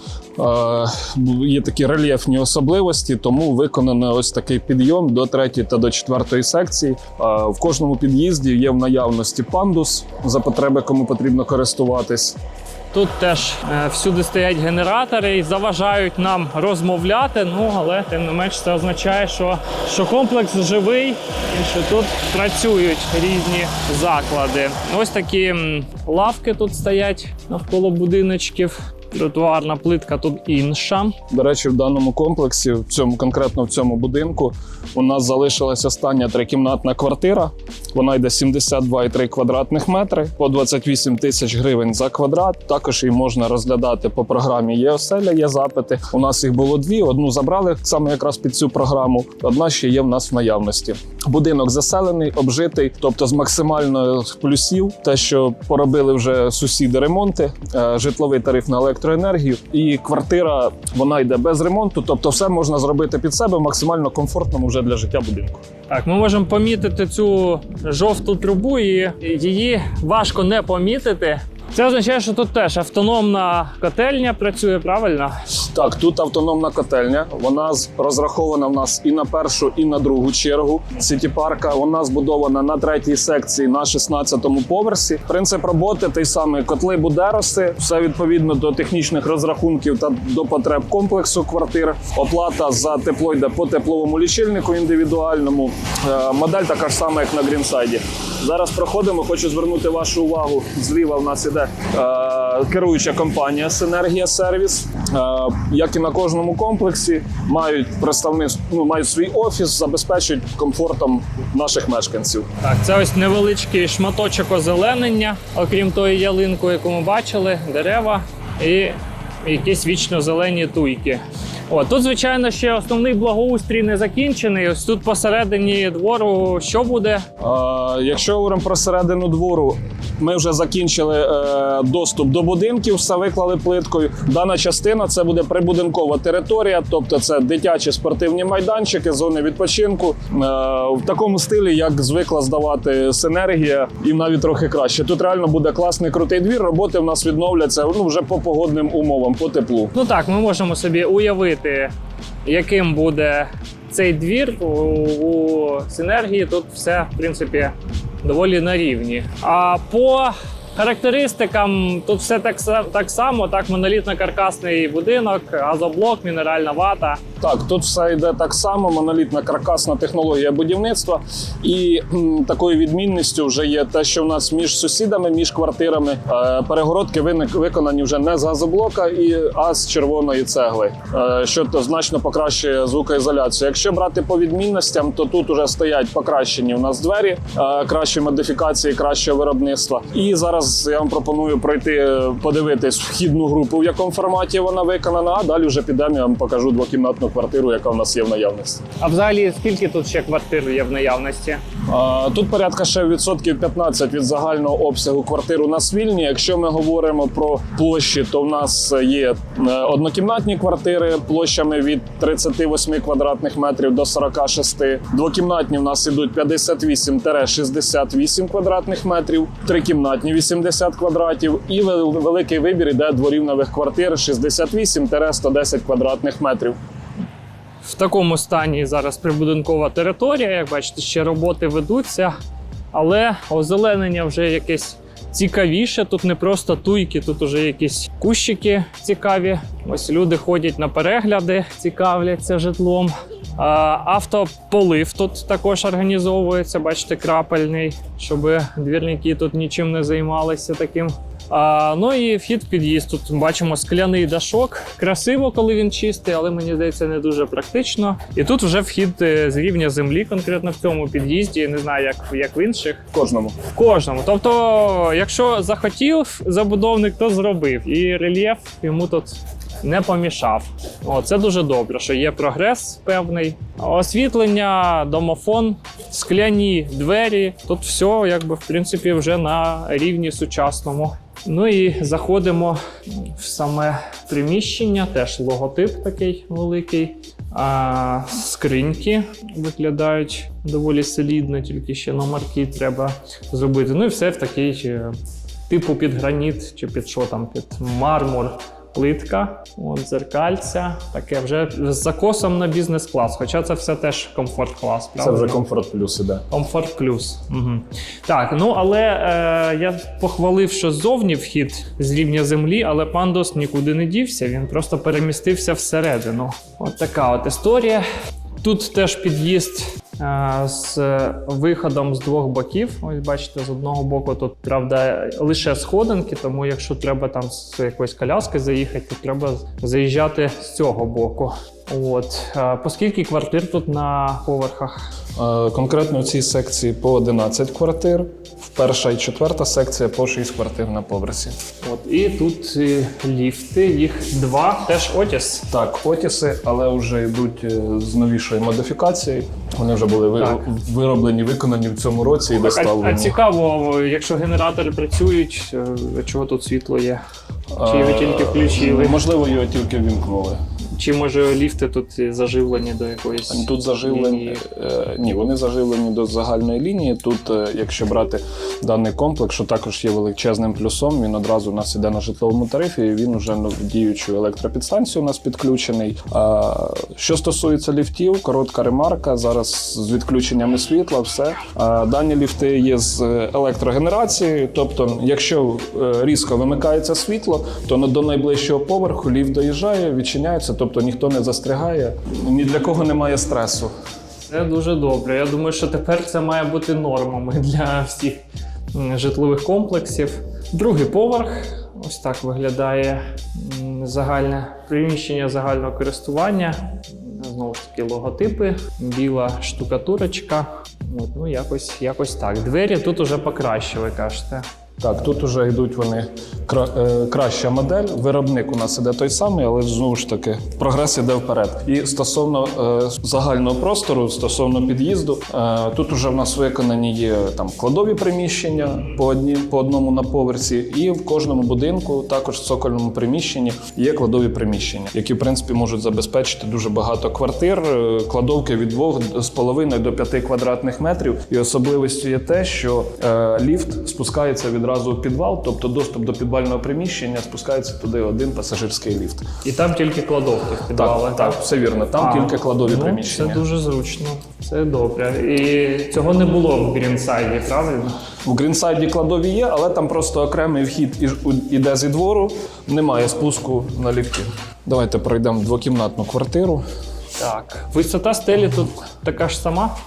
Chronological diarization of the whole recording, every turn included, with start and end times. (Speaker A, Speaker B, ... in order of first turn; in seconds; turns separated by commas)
Speaker A: 0.4-12.4, Speaker B: 12.9-31.2, Speaker A: 31.3-65.6, Speaker B: 65.9-75.6, Speaker A: 75.7-112.5, Speaker B: 112.6-127.2, Speaker A: 127.4-149.9, Speaker B: 149.9-151.9, Speaker B: 152.4-167.2, Speaker A: 167.4-198.8, Speaker B: 199.0-201.6, Speaker A: 201.9-226.8, Speaker B: 227.8-232.3, Speaker B: 232.9-263.0, Speaker A: 263.1-263.6, Speaker B: 263.7-295.1, Speaker B: 295.7-305.6, Speaker A: 305.2-306.4, Speaker B: 306.5-318.0, Speaker B: 318.6-335.0, Speaker A: 335.4-341.6, Speaker B: 341.8-345.6, Speaker A: 345.7-353.4, Speaker B: 352.6-357.2, Speaker A: 357.8-360.6, Speaker B: 357.8-359.2, Speaker B: 361.0-364.6, Speaker A: 363.5-393.9, Speaker B: 394.5-398.4, Speaker B: 398.9-414.6, Speaker A: 415.0-449.4, Speaker B: 449.6-451.6, Speaker A: 450.9-453.6, Speaker B: 452.2-458.2, Speaker A: 458.4-466.8, Speaker B: 467.4-469.9